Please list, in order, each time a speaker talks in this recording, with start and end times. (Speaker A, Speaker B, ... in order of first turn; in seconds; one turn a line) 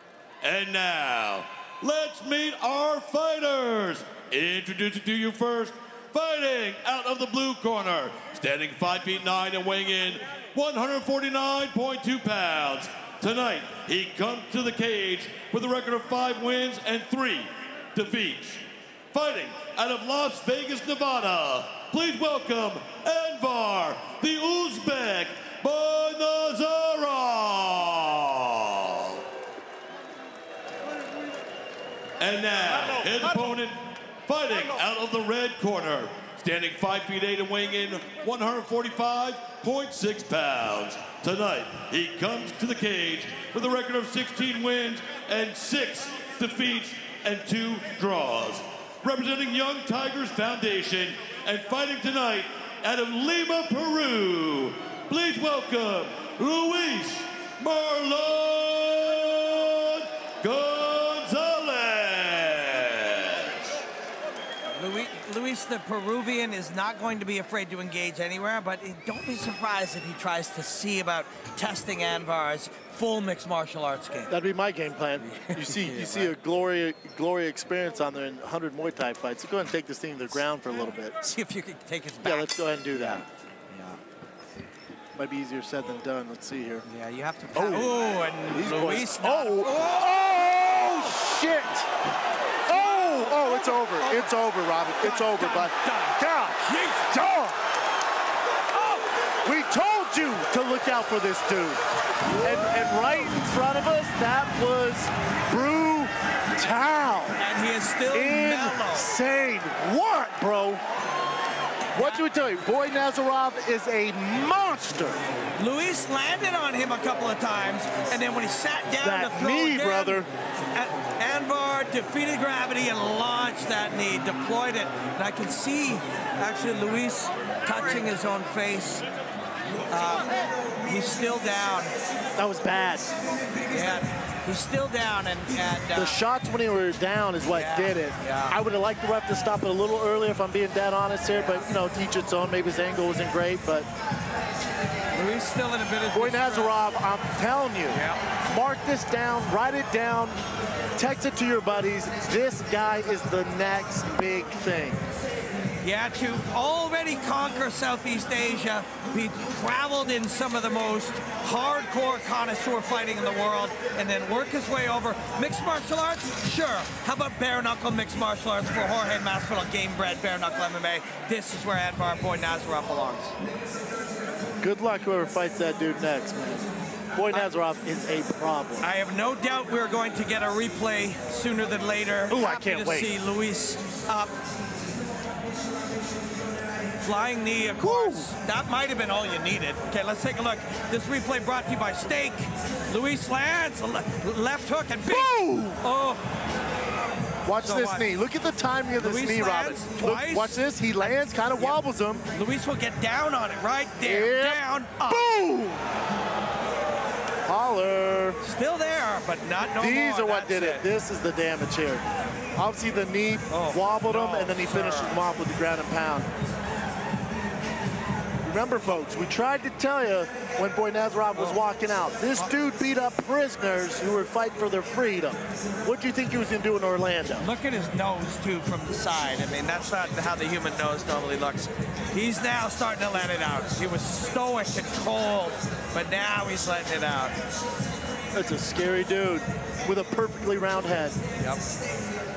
Speaker A: 0.4-29.2
Speaker A: 32.2-33.7
Speaker A: 34.3-63.5
Speaker B: 64.8-74.3
Speaker C: 74.3-81.2
Speaker B: 75.2-76.4
Speaker B: 81.2-84.0
Speaker C: 82.2-83.2
Speaker C: 85.2-86.8
Speaker B: 86.9-90.2
Speaker C: 87.5-88.0
Speaker C: 88.5-91.9
Speaker B: 90.7-91.2
Speaker C: 92.7-97.5
Speaker B: 92.7-94.3
Speaker B: 95.0-97.4
Speaker B: 98.7-99.1
Speaker C: 99.5-101.8
Speaker B: 102.3-102.7
Speaker C: 102.4-107.4
Speaker B: 107.4-109.1
Speaker C: 108.1-110.8
Speaker B: 112.0-112.2
Speaker C: 112.0-115.2
Speaker B: 115.6-129.1
Speaker C: 119.0-120.3
Speaker B: 129.9-130.3
Speaker B: 130.8-131.9
Speaker C: 132.4-133.1
Speaker B: 133.7-136.2
Speaker C: 135.9-143.9
Speaker B: 137.5-138.6
Speaker B: 145.1-146.8
Speaker C: 146.1-150.4
Speaker B: 147.9-148.2
Speaker C: 151.0-155.0
Speaker B: 155.8-173.4
Speaker C: 174.6-178.8
Speaker B: 178.8-184.3
Speaker C: 182.3-183.1
Speaker B: 187.0-195.3
Speaker C: 187.8-188.3
Speaker C: 195.1-195.8
Speaker B: 195.8-196.3
Speaker C: 197.5-202.3
Speaker B: 197.6-198.1
Speaker B: 199.0-200.6
Speaker B: 202.3-205.2
Speaker C: 204.0-205.8
Speaker C: 207.5-208.4
Speaker B: 208.4-210.8
Speaker C: 209.8-212.0
Speaker C: 212.6-216.3
Speaker B: 213.5-215.2
Speaker C: 218.4-227.5
Speaker B: 221.3-221.6
Speaker B: 227.4-237.3
Speaker C: 238.3-241.2